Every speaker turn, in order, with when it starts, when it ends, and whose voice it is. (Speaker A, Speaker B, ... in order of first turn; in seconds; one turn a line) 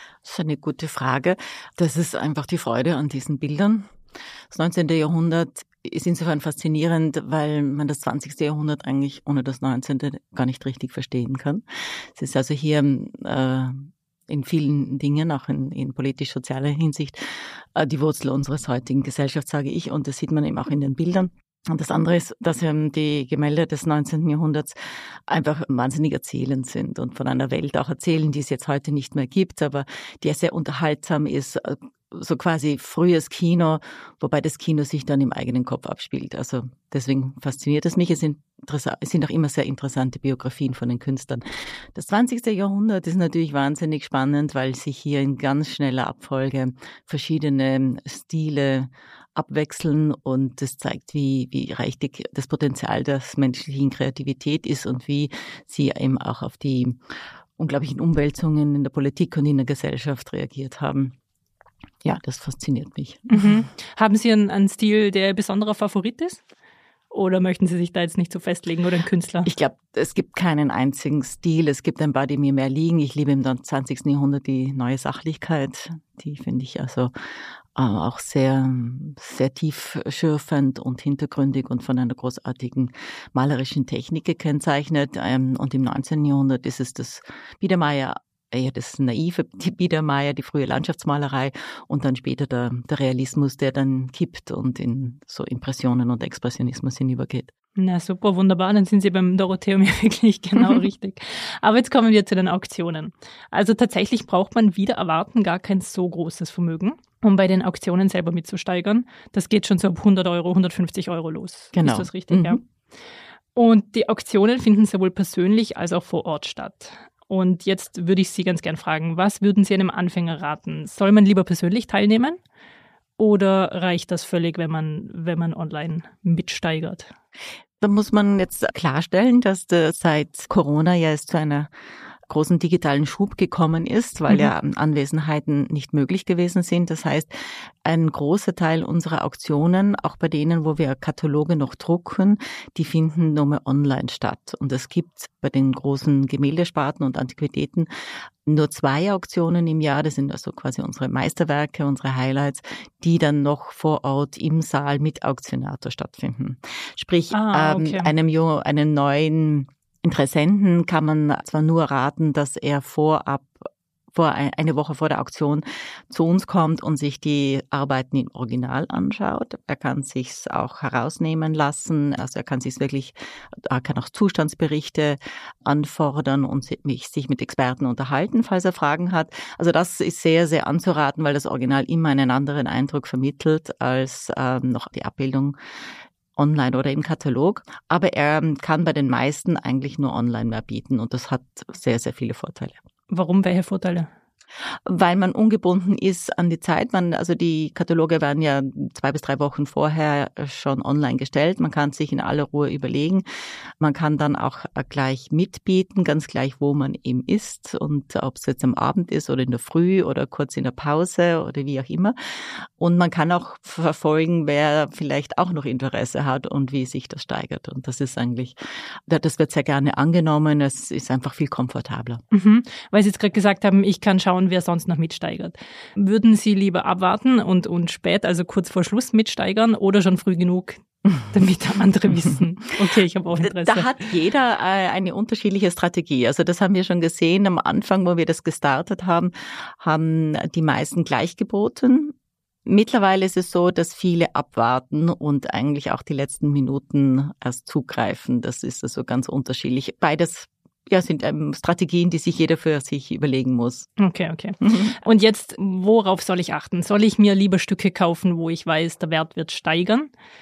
Speaker A: 0.2-3.9
Speaker A: 4.5-57.0
Speaker A: 57.6-61.1
Speaker A: 62.0-63.5
Speaker B: 63.3-66.4
Speaker B: 67.1-69.5
Speaker A: 69.5-77.1
Speaker A: 77.7-97.5
Speaker B: 97.8-112.6
Speaker A: 111.7-112.6
Speaker B: 113.5-122.4
Speaker B: 123.2-127.1
Speaker A: 127.8-131.7
Speaker A: 132.3-137.3
Speaker A: 137.8-147.9
Speaker A: 148.4-185.6
Speaker B: 157.3-158.1
Speaker A: 186.3-192.8
Speaker B: 193.1-194.1
Speaker A: 194.8-203.2
Speaker A: 203.8-222.2
Speaker B: 222.3-233.9
Speaker A: 233.4-242.1
Speaker A: 242.7-253.9
Speaker B: 254.0-260.1
Speaker A: 254.6-254.9